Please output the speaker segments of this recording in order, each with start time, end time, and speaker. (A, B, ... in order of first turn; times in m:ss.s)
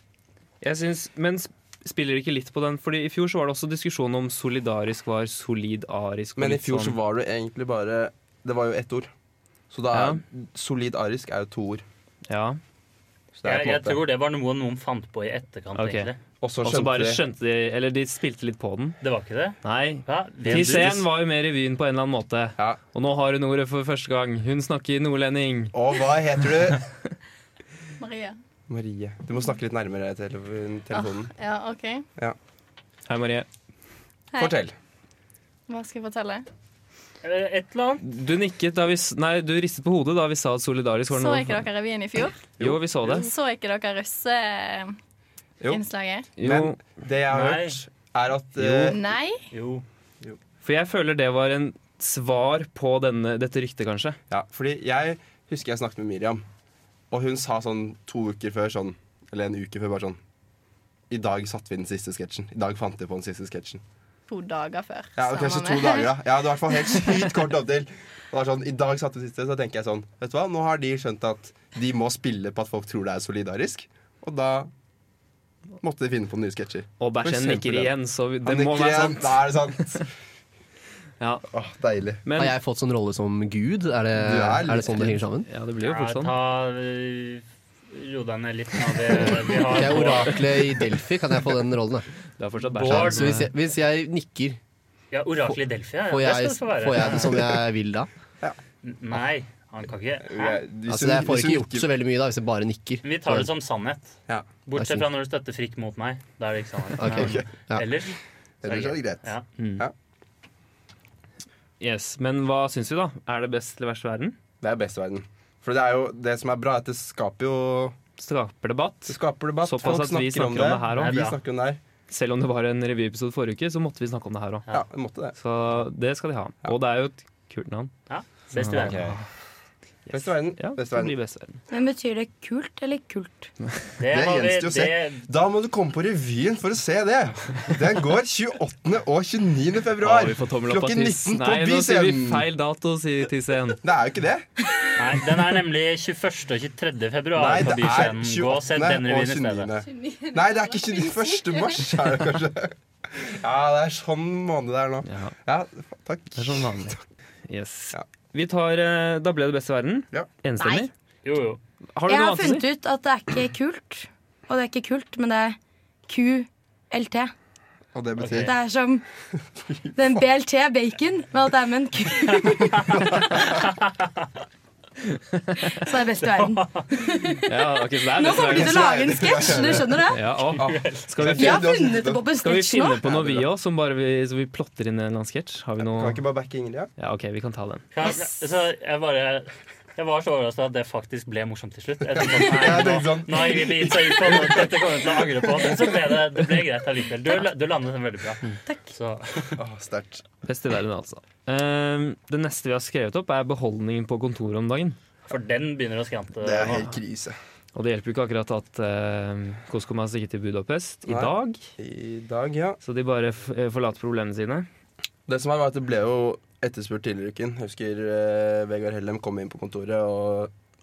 0:00.6-0:07.0 A
0:06.4-0:09.1 B
0:09.7-0:11.8 B
0:09.9-0:10.2 A
0:12.3-0:12.6 A
0:13.3-0:14.0 B
0:13.4-0:16.2 C
0:15.7-0:16.1 A
0:16.4-0:17.2 B
0:16.6-0:19.0 A
0:19.0-0:21.0 C
0:19.6-0:25.7 A
0:20.5-0:20.8 B
0:25.7-0:26.8 B
0:28.0-0:28.4 D
0:28.7-0:31.3 B
0:30.9-0:32.0 D
0:33.1-0:33.5 A
0:34.4-0:34.7 B
0:35.7-0:36.4 D
0:37.2-0:38.0 C
0:38.0-0:41.6 A
0:41.1-0:44.9 D
0:42.6-0:43.2 B
0:42.6-0:43.3 A
0:45.6-0:46.3 D
0:46.4-0:46.8 A
0:46.4-0:49.0 B
0:47.3-0:47.8 C
0:48.6-0:49.0 A
0:48.9-0:49.4 D
0:49.5-0:49.8 C
0:50.6-0:54.2 A
0:54.3-0:56.4 B
0:57.1-1:00.2 B
1:01.1-1:03.8 B
1:04.3-1:06.1 D
1:05.2-1:14.7 B
1:15.8-1:20.1 B
1:17.0-1:19.5 A
1:21.2-1:21.4 A
1:21.5-1:22.2 B
1:22.2-1:22.5 A
1:22.3-1:25.5 E
1:24.1-1:25.2 B
1:25.5-1:26.3 A
1:25.8-1:30.5 C
1:29.4-1:32.1 E
1:32.4-1:33.5 A
1:32.7-1:33.4 C
1:32.8-1:34.6 E
1:35.1-1:37.5 C
1:36.1-1:38.1 E
1:38.8-1:40.6 C
1:40.2-1:41.9 B
1:40.9-1:43.5 E
1:43.0-1:44.1 C
1:44.6-1:49.5 C
1:44.8-1:45.0 E
1:47.0-1:47.8 E
1:47.0-1:47.4 B
1:48.6-1:49.3 B
1:49.6-1:49.8 A
1:51.8-1:54.4 A
1:54.6-1:58.0 B
1:58.2-2:01.2 A
1:59.1-2:01.8 B
2:00.9-2:01.4 C
2:02.1-2:04.6 A
2:04.7-2:05.4 B
2:05.4-2:07.9 A
2:08.1-2:09.2 C
2:08.6-2:09.2 A
2:08.8-2:09.2 B
2:10.0-2:11.6 A
2:10.1-2:11.1 B
2:11.7-2:13.5 F
2:14.0-2:15.2 C
2:14.1-2:22.4 B
2:20.0-2:23.8 A
2:23.8-2:24.4 B
2:25.0-2:29.7 C
2:27.4-2:36.9 B
2:29.8-2:31.8 D
2:35.0-2:35.3 A
2:36.4-2:40.9 A
2:40.6-2:40.9 F
2:41.2-2:41.6 C
2:41.9-2:42.6 A
2:42.0-2:45.6 F
2:46.1-2:47.3 F
2:47.9-2:48.5 B
2:48.3-2:49.0 F
2:49.6-2:50.2 B
2:49.9-2:53.4 F
2:52.5-2:54.1 C
2:55.1-2:55.7 A
2:55.6-3:00.2 F
2:56.4-2:56.9 C
2:57.4-2:59.0 A
2:58.3-3:02.2 B
3:00.1-3:01.7 A
3:00.6-3:01.1 C
3:01.3-3:03.0 F
3:02.4-3:06.2 A
3:03.0-3:03.5 B
3:05.8-3:06.9 B
3:07.0-3:07.8 A
3:07.9-3:19.6 C
3:12.1-3:15.9 B
3:19.6-3:20.2 B
3:20.4-3:25.0 A
3:25.3-3:26.8 C
3:26.4-3:27.4 B
3:27.7-3:31.6 A
3:31.1-3:32.8 B
3:32.8-3:34.7 A
3:35.3-3:40.5 B